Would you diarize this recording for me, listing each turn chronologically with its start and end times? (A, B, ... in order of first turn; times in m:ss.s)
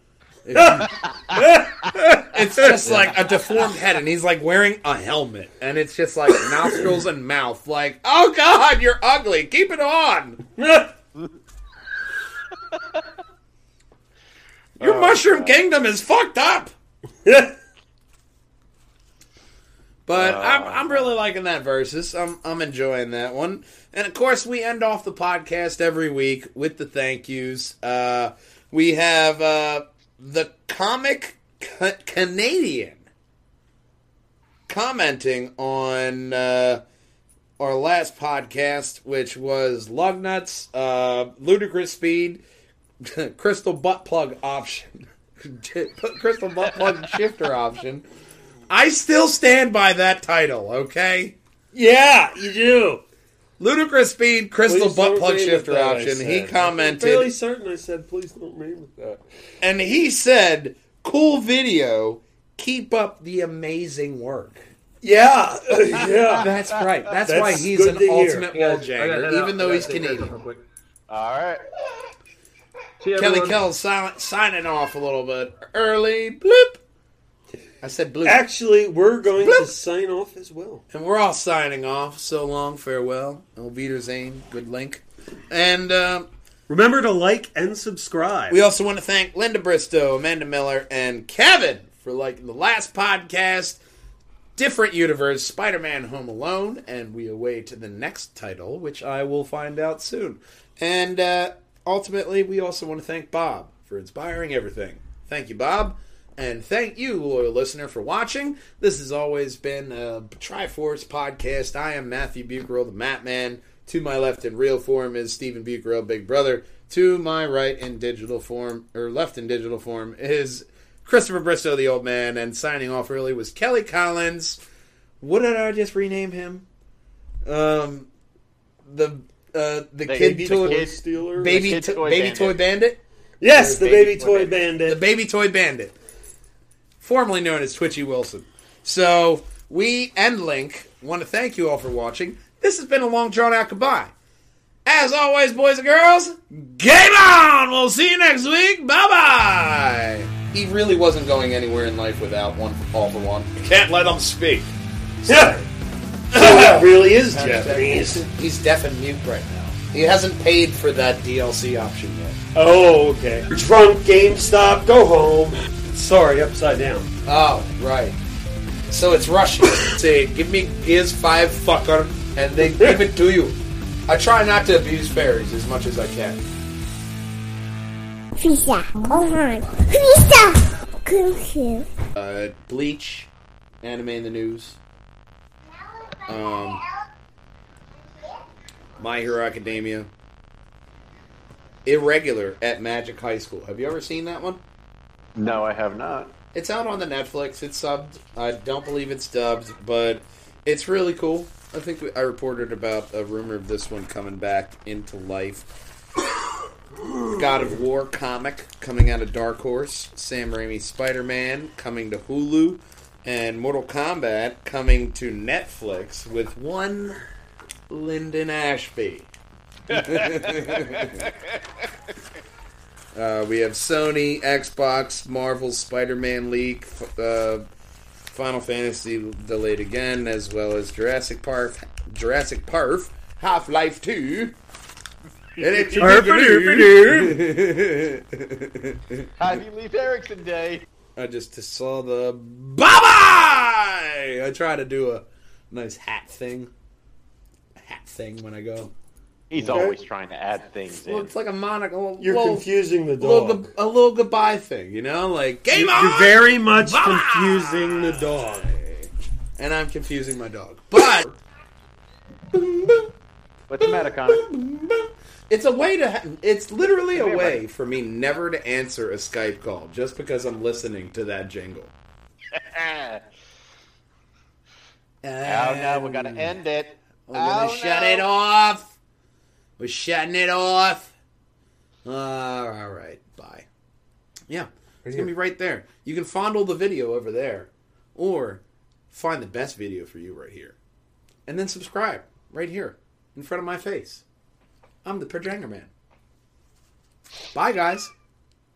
0:00.4-0:00.9 A
0:00.5-0:02.9 B
0:02.3-0:10.4 A
0:02.9-0:03.2 C
0:10.6-0:10.9 B
0:14.8-0:16.7 A
0:14.8-0:15.6 C
0:17.2-0:17.6 B
0:20.1-0:33.1 A
0:20.1-0:21.1 C
0:34.7-0:36.8 A
0:37.6-0:42.4 A
0:43.0-0:48.0 A
0:48.7-0:51.4 A
0:51.7-0:53.0 B
0:53.6-0:57.3 A
0:54.6-0:59.2 B
0:59.6-1:04.7 A
1:05.0-1:06.5 B
1:06.4-1:10.3 A
1:07.2-1:08.5 B
1:08.5-1:10.6 D
1:11.1-1:11.7 C
1:13.0-1:13.6 D
1:13.2-1:16.8 A
1:17.8-1:18.4 A
1:18.2-1:20.8 B
1:19.4-1:19.7 A
1:20.9-1:26.3 A
1:26.7-1:28.6 B
1:28.5-1:33.8 A
1:34.6-2:04.6 A
2:05.2-2:06.7 A
2:07.4-2:08.1 A
2:08.8-2:13.0 A
2:10.1-2:12.6 C
2:10.1-2:11.7 B
2:13.4-2:15.0 B
2:13.5-2:16.0 A
2:13.9-2:14.5 C
2:17.0-2:24.1 A
2:24.9-2:35.7 A
2:35.3-2:35.6 B
2:36.3-2:38.3 B
2:36.3-2:42.4 A
2:42.6-2:47.1 B
2:47.3-2:48.2 A
2:48.9-2:53.6 A
2:54.1-2:56.4 A
2:58.4-3:01.9 E
3:02.2-3:03.3 A
3:03.8-3:04.8 A
3:06.3-3:06.8 A
3:09.0-3:10.1 A
3:11.9-3:14.6 A
3:15.4-3:16.3 C
3:16.5-3:25.7 A
3:27.4-3:37.2 A
3:37.9-3:39.3 A
3:39.9-3:41.3 A
3:40.0-3:40.6 C
3:43.1-3:47.6 A
3:48.3-3:54.6 A
3:55.6-3:56.1 C
3:55.6-3:59.3 A
3:56.0-3:57.4 B
3:59.4-4:00.8 C
4:01.2-4:06.7 A
4:07.8-4:08.9 A
4:09.5-4:11.3 C
4:09.6-4:09.9 A
4:09.6-4:10.0 B
4:11.0-4:12.7 A
4:12.2-4:13.7 B
4:13.2-4:21.4 A
4:15.7-4:18.8 B
4:22.5-4:23.1 A
4:23.7-4:24.5 C
4:23.8-4:31.9 A
4:27.1-4:27.6 C
4:32.5-4:33.2 C
4:35.2-4:36.5 A
4:35.4-4:38.2 C
4:37.3-4:39.0 A
4:39.8-4:41.1 A
4:42.0-4:43.7 A
4:44.5-4:50.8 A
4:45.0-4:45.3 B
4:51.5-4:54.2 A
4:55.0-4:55.9 A
4:57.5-4:58.1 A